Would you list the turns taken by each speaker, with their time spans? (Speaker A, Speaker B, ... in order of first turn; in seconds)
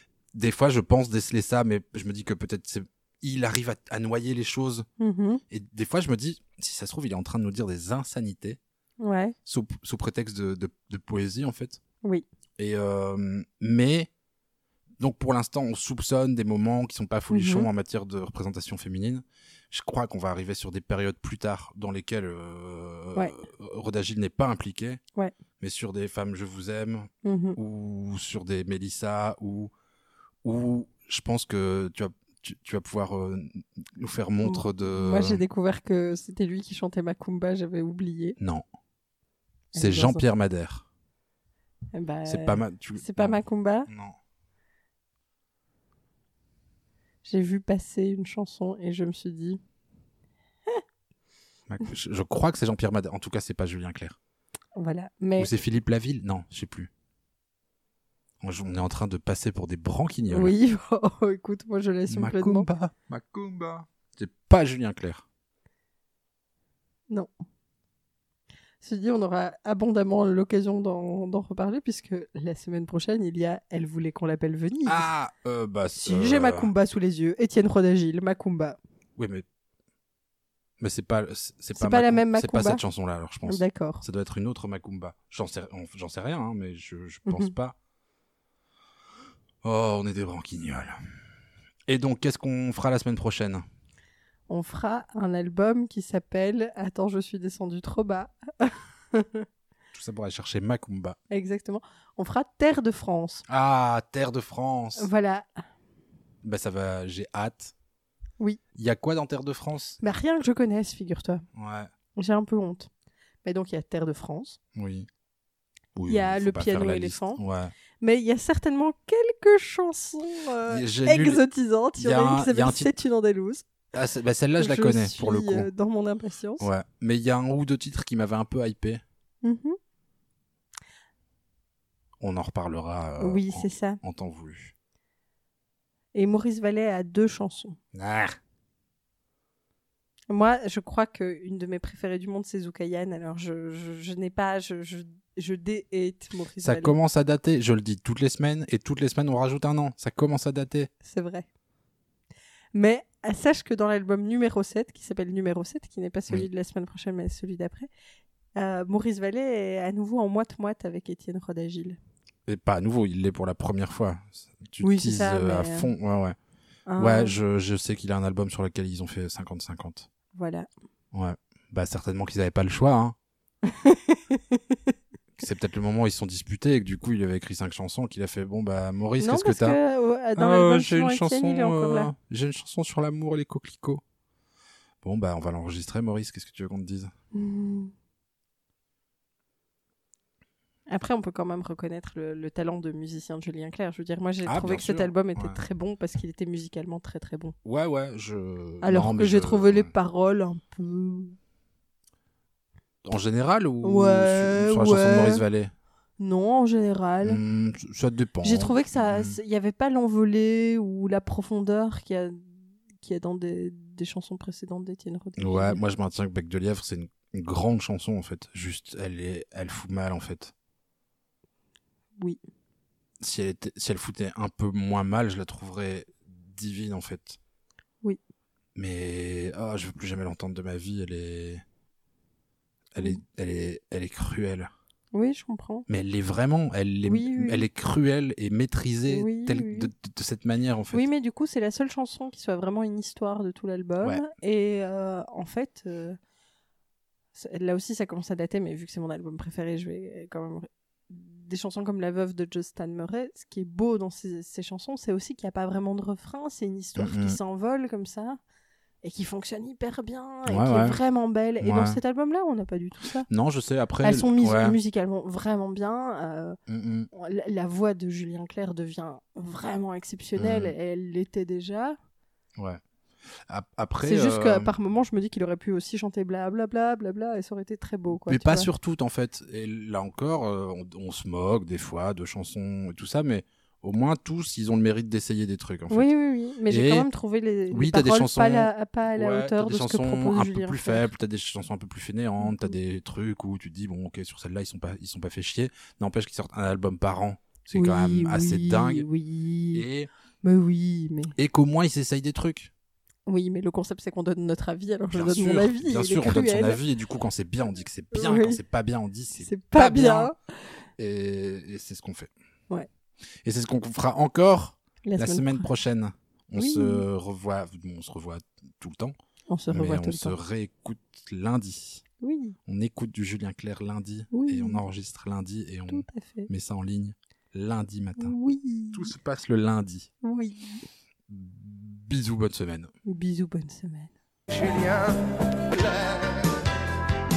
Speaker A: 0.3-4.9, 5.5-8.6, 9.5-11.8, 12.6-14.1, 15.0-25.0, 25.6-29.7, 30.4-35.4, 38.4-38.6, 39.8-40.9, 42.3-44.2, 51.7-54.2, 55.4-56.9, 58.4-60.5, 62.1-65.2, 74.9-76.7, 79.2-79.5, 80.8-87.8, 89.6-91.0, 91.9-93.7, 99.9-101.2, 103.5-105.1, 106.4-107.7, 108.8-110.0, 111.5-111.9, 114.8-115.1, 116.0-117.7, 120.7-121.4, 122.0-123.0, 123.9-125.7, 126.6-129.0, 132.2-134.7, 137.9-138.4, 146.6-150.9, 162.5-166.4, 167.0-170.1, 171.1-173.2, 175.4-179.8, 180.4-184.0, 185.0-187.1, 194.5-195.6, 197.7-199.9, 203.1-205.7, 207.2-209.3, 215.4-220.5, 223.2-227.4, 228.8-231.6, 232.9-234.7, 235.9-241.1, 257.0-257.4, 260.5-261.0, 261.6-262.0, 263.3-264.8, 266.7-267.1, 270.4-270.7, 273.5-274.7, 278.1-286.1, 286.7-287.1, 287.7-299.1, 299.7-300.1, 301.4-302.7, 305.1-310.3, 311.0-312.3, 313.4-319.2, 319.7-322.0, 322.7-328.4, 328.9-330.1, 331.3-332.9
Speaker B: 5.0-5.4, 9.0-9.3, 17.3-17.7, 27.2-27.6, 34.4-38.4, 39.7-40.2, 41.9-43.9, 47.2-49.6, 54.8-55.5, 60.3-62.7, 68.8-75.1, 76.0-78.8, 81.8-82.8, 83.5-84.0, 87.3-87.5, 94.5-99.5, 101.3-103.5, 105.0-105.5, 110.0-111.5, 112.2-112.9, 113.4-114.6, 116.1-117.4, 118.0-123.7, 124.6-126.7, 129.4-129.8, 133.2-134.0, 136.2-137.8, 140.3-147.0, 151.0-151.5, 152.7-157.9, 158.6-162.0, 164.8-165.9, 166.9-167.4, 170.3-170.7, 173.7-174.8, 179.2-182.1, 187.3-187.9, 190.9-197.6, 198.8-201.4, 203.8-205.4, 206.2-207.4, 208.4-212.4, 213.0-215.8, 235.1-235.9, 237.1-237.6, 239.1-239.9, 240.9-246.2, 247.3-258.4, 259.0-263.3, 264.0-266.6, 267.1-272.0, 274.0-278.7, 285.9-291.1, 292.4-292.7, 297.7-299.8, 300.4-301.4, 303.3-306.8, 308.1-308.6, 309.4-310.4, 315.1-315.7, 316.6-317.0, 319.5-320.4, 322.2-322.6, 324.3-324.8, 325.9-326.5, 328.2-329.1, 330.2-330.8, 333.1-334.1
Speaker C: 334.5-336.6